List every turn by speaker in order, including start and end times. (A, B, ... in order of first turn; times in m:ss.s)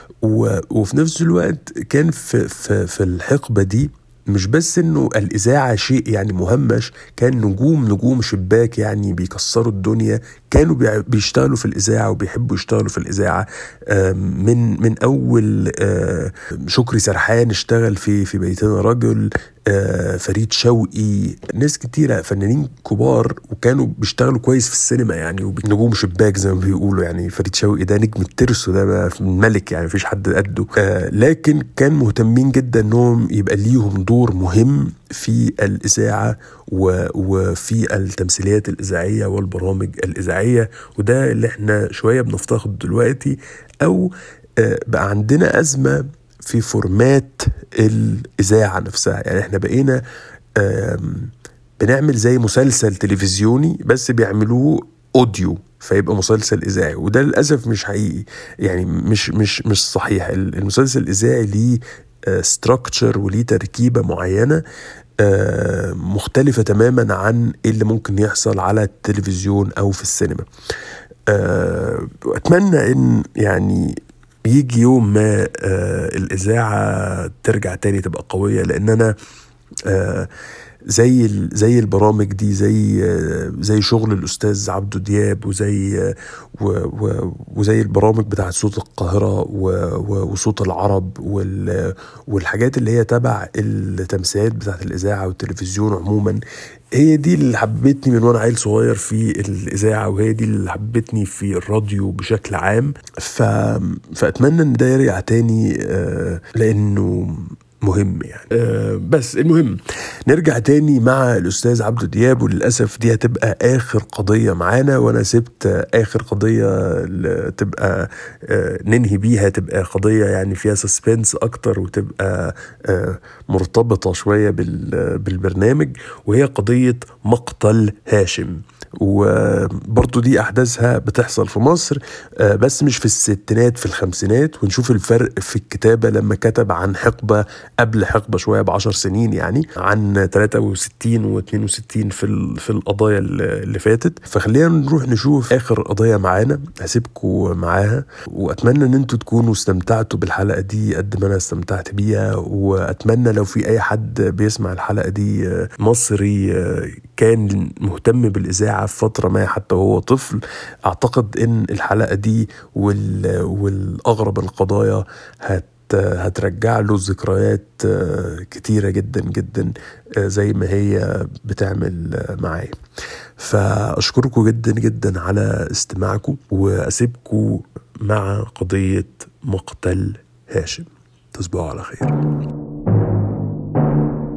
0:00.2-0:50.0 A
0:50.6-1:04.6 A
1:05.2-1:10.5 A
1:11.3-1:19.1 A
1:19.9-1:20.3 A
1:20.9-1:36.4 A
1:36.9-2:52.8 A
2:53.4-3:02.1 A